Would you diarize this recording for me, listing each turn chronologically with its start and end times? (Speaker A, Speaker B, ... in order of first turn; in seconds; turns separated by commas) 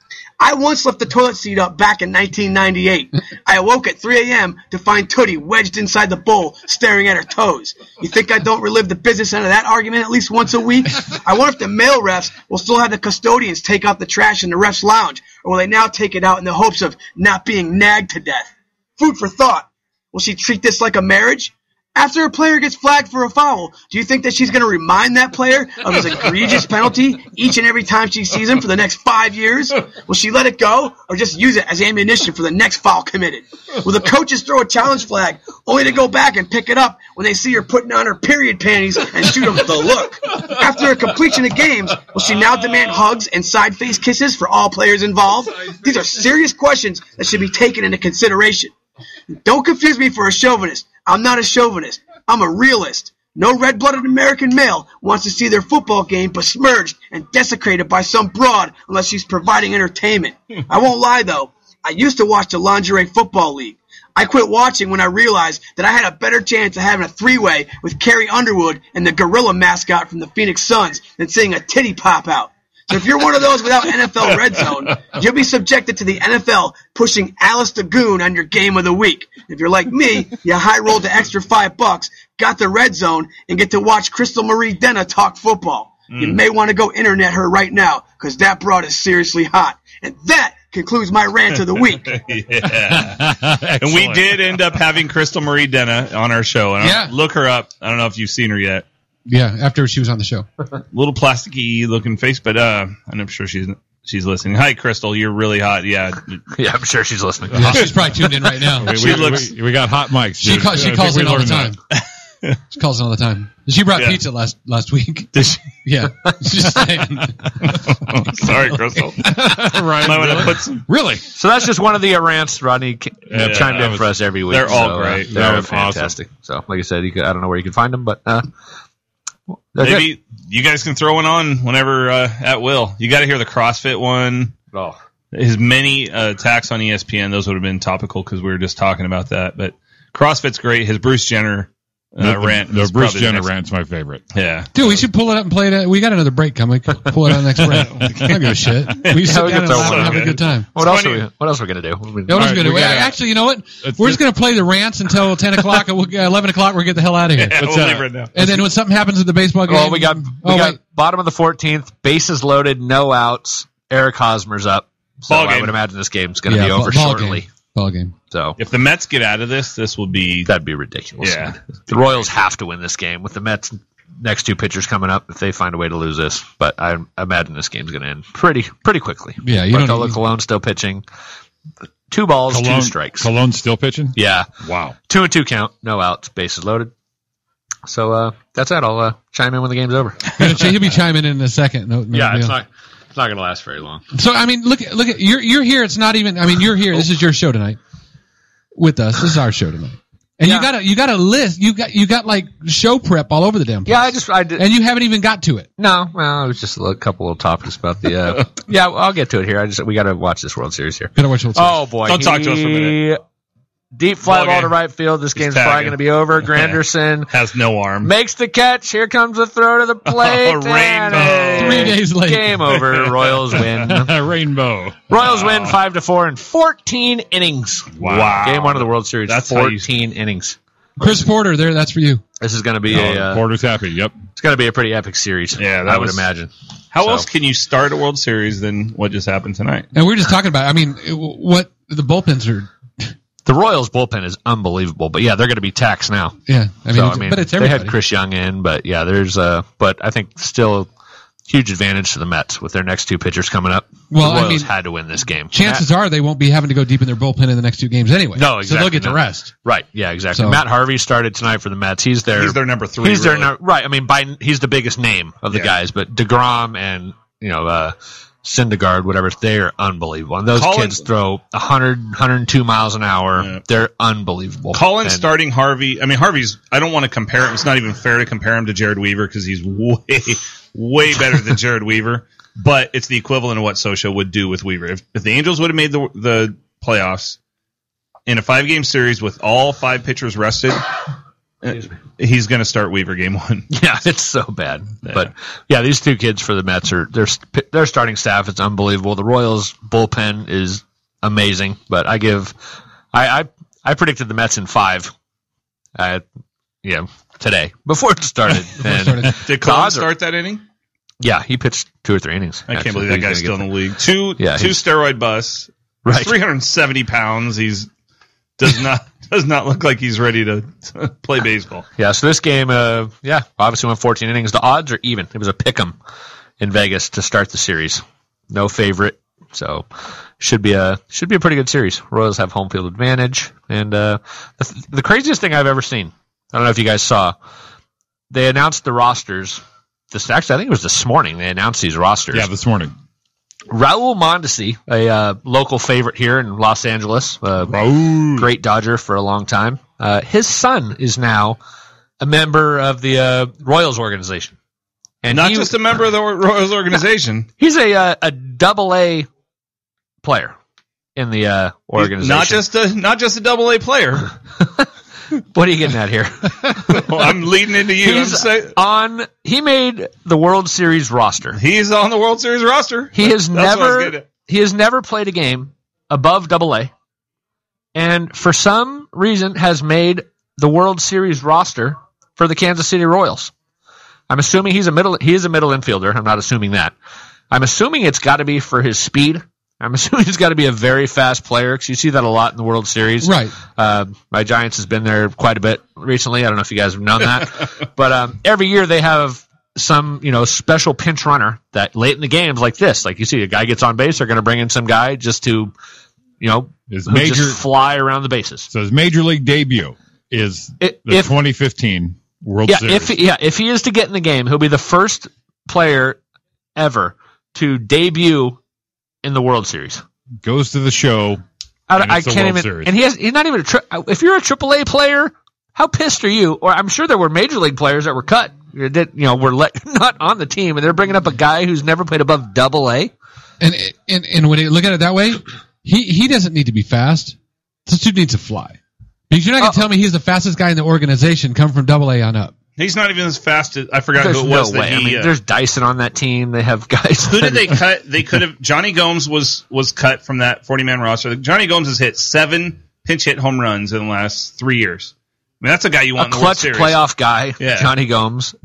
Speaker A: 0.4-48.7, Speaker A: 49.3-92.2, Speaker B: 86.1-86.4, Speaker B: 92.1-93.2, Speaker C: 92.8-94.6, Speaker B: 93.8-98.9, Speaker D: 96.8-97.1, Speaker D: 99.3-100.5, Speaker B: 100.9-106.4, Speaker E: 106.5-107.9, Speaker D: 107.5-109.1, Speaker C: 108.8-111.8, Speaker B: 108.8-109.5, Speaker D: 110.4-111.8, Speaker B: 112.0-112.5, Speaker D: 112.7-115.3, Speaker D: 115.8-117.8, Speaker B: 118.1-119.3, Speaker D: 119.2-120.4, Speaker C: 119.2-121.2, Speaker B: 120.0-120.8, Speaker E: 121.3-128.5, Speaker C: 123.3-124.2, Speaker B: 123.3-125.3, Speaker C: 125.3-126.2, Speaker E: 129.7-130.1, Speaker B: 129.8-134.6, Speaker B: 135.3-143.5, Speaker C: 142.2-144.2, Speaker B: 144.3-144.7, Speaker D: 144.7-150.7, Speaker B: 147.9-148.2, Speaker E: 149.2-153.1, Speaker B: 149.7-151.2, Speaker D: 152.3-157.6, Speaker C: 152.3-153.2, Speaker C: 153.8-154.2, Speaker B: 157.4-158.4, Speaker C: 157.6-158.1, Speaker D: 158.3-160.8, Speaker E: 159.7-167.5, Speaker B: 165.3-165.8, Speaker D: 166.5-168.1, Speaker E: 168.3-168.6, Speaker B: 168.6-170.5, Speaker E: 170.5-181.0, Speaker B: 171.2-172.1, Speaker D: 179.4-180.2, Speaker E: 182.1-183.3, Speaker C: 182.5-185.0, Speaker E: 184.2-184.5, Speaker E: 185.1-186.9, Speaker E: 187.9-190.6, Speaker D: 190.4-192.6, Speaker E: 192.1-194.0, Speaker D: 194.1-197.8, Speaker D: 198.8-205.7, Speaker E: 200.4-200.7, Speaker E: 203.9-204.6, Speaker E: 205.8-213.2, Speaker D: 211.2-211.8, Speaker B: 212.1-213.0, Speaker E: 213.9-217.3, Speaker B: 214.2-214.8, Speaker B: 215.3-218.1, Speaker E: 218.0-224.2, Speaker B: 220.1-222.0, Speaker D: 221.6-222.6, Speaker B: 222.8-223.6, Speaker C: 223.8-225.3, Speaker E: 225.1-230.6, Speaker B: 225.2-225.7, Speaker B: 228.0-229.9, Speaker C: 228.0-228.4, Speaker D: 231.0-232.2, Speaker E: 232.4-233.4, Speaker C: 232.9-234.2, Speaker E: 234.4-237.3, Speaker B: 235.6-236.3, Speaker B: 236.9-239.9, Speaker D: 239.9-242.7, Speaker E: 243.4-246.4, Speaker D: 246.5-247.9, Speaker E: 246.9-250.9, Speaker E: 251.5-255.8, Speaker D: 254.1-254.7, Speaker D: 255.5-259.5, Speaker E: 258.4-275.3, Speaker D: 260.3-260.6, Speaker B: 262.3-263.5, Speaker B: 270.5-271.1, Speaker B: 273.4-273.6, Speaker B: 274.7-287.4, Speaker B: 288.3-290.8, Speaker B: 291.6-293.7, Speaker E: 293.7-302.6, Speaker E: 303.1-305.1, Speaker E: 306.0-306.2, Speaker E: 306.8-310.1, Speaker D: 308.8-309.4, Speaker B: 309.4-310.6, Speaker E: 311.2-313.7, Speaker B: 312.7-317.9, Speaker E: 314.4-314.8, Speaker E: 316.1-316.4, Speaker B: 318.6-321.9, Speaker E: 322.0-326.0, Speaker E: 326.6-329.9, Speaker E: 330.4-337.3, Speaker E: 338.3-342.5, Speaker C: 342.3-342.9, Speaker E: 343.7-351.6, Speaker C: 347.7-348.5, Speaker E: 352.2-354.6, Speaker E: 355.2-355.8, Speaker B: 355.3-357.5, Speaker E: 357.6-359.3, Speaker E: 360.2-360.6, Speaker E: 361.2-362.6, Speaker B: 362.0-364.3, Speaker E: 365.5-367.4, Speaker B: 366.9-368.8, Speaker E: 368.0-371.6, Speaker B: 371.5-374.3, Speaker E: 373.1-376.9, Speaker E: 377.9-383.5, Speaker E: 384.3-386.9, Speaker E: 387.5-405.7, Speaker D: 393.2-393.6, Speaker E: 406.4-408.7, Speaker C: 406.9-407.6, Speaker C: 408.7-413.2, Speaker E: 410.8-411.3, Speaker E: 412.7-416.2, Speaker E: 416.8-418.6, Speaker E: 419.2-420.0, Speaker C: 420.4-421.4, Speaker E: 421.9-433.1, Speaker C: 421.9-422.9, Speaker D: 433.6-437.4, Speaker D: 437.9-438.8, Speaker D: 439.3-442.5, Speaker B: 442.8-445.3, Speaker E: 444.2-447.8, Speaker B: 447.3-457.0, Speaker E: 456.2-458.5, Speaker B: 457.6-457.9